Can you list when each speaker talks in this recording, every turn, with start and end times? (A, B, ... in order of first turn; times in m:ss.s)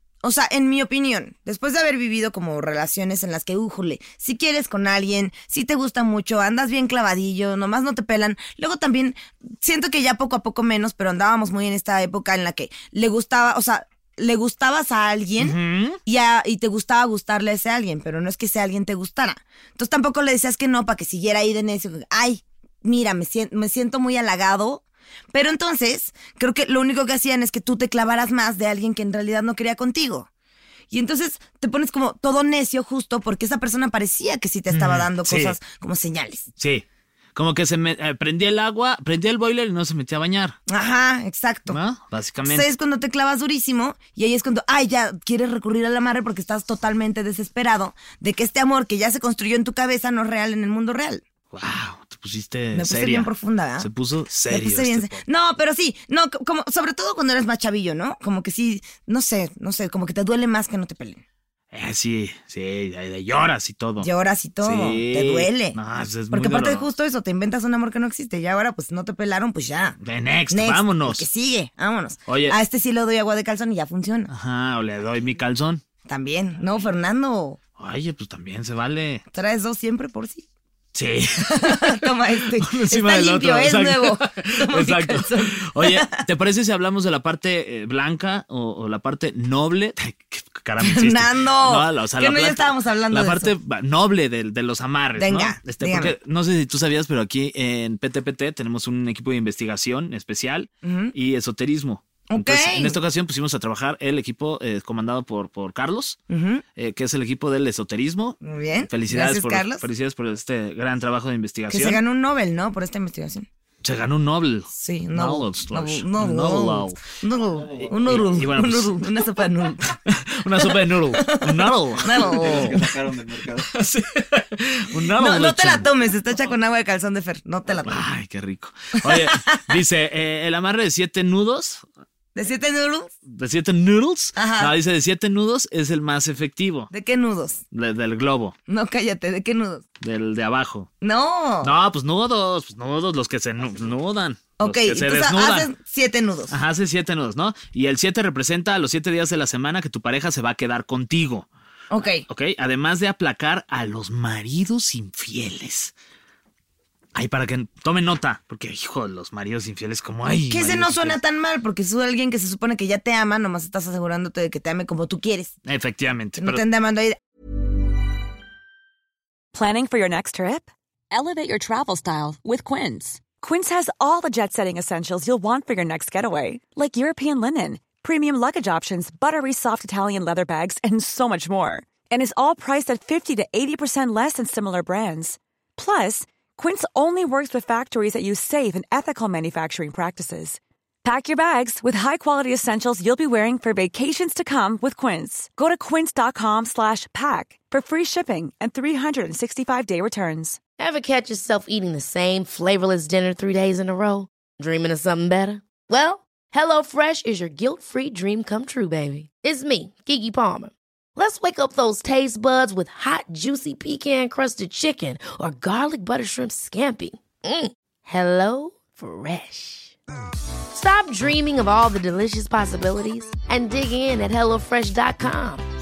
0:00.2-0:30.3 A
0:15.4-0:16.0 B
0:30.9-0:36.5 A
0:34.7-0:35.6 B
0:36.6-0:40.6 B
0:40.7-0:41.8 A
0:41.7-0:42.7 B
0:42.5-0:51.2 A
0:51.5-0:55.2 B
0:52.7-0:53.9 A
0:54.5-1:01.2 A
1:01.7-1:04.1 B
1:04.0-1:05.8 A
1:04.6-1:06.9 B
1:06.3-1:10.0 A
1:10.0-1:11.3 B
1:10.5-1:14.3 A
1:12.3-1:12.6 B
1:14.3-1:15.8 B
1:16.1-1:17.6 A
1:17.8-1:19.2 B
1:19.3-1:20.4 A
1:20.9-1:22.1 B
1:21.5-1:26.2 A
1:22.6-1:46.2 B
1:30.8-1:33.5 A
1:35.2-1:36.1 A
1:40.8-1:41.1 A
1:42.3-1:43.0 A
1:46.3-1:46.6 A
1:46.8-1:52.0 B
1:48.4-1:49.8 A
1:51.7-1:53.5 A
1:53.8-1:57.0 B
1:54.7-2:00.0 A
1:57.6-1:58.1 C
1:58.0-1:59.0 B
2:00.1-2:02.9 B
2:01.1-2:02.8 A
2:02.1-2:03.7 C
2:03.7-2:05.9 B
2:05.2-2:08.0 A
2:07.9-2:11.8 B
2:09.0-2:09.6 A
2:12.4-2:13.1 A
2:13.3-2:16.9 B
2:14.4-2:14.7 A
2:16.9-2:17.6 A
2:17.7-2:18.6 B
2:18.7-2:19.8 A
2:20.0-2:20.9 B
2:21.0-2:21.7 A
2:21.6-2:25.7 B
2:24.6-2:26.5 A
2:26.5-2:31.5 B
2:31.9-2:32.2 A
2:32.3-2:35.9 B
2:37.1-2:41.2 B
2:40.5-2:45.5 A
2:45.6-2:46.6 B
2:46.4-2:47.2 A
2:49.5-3:20.6 D
3:20.8-3:39.9 E
3:40.7-3:45.6 E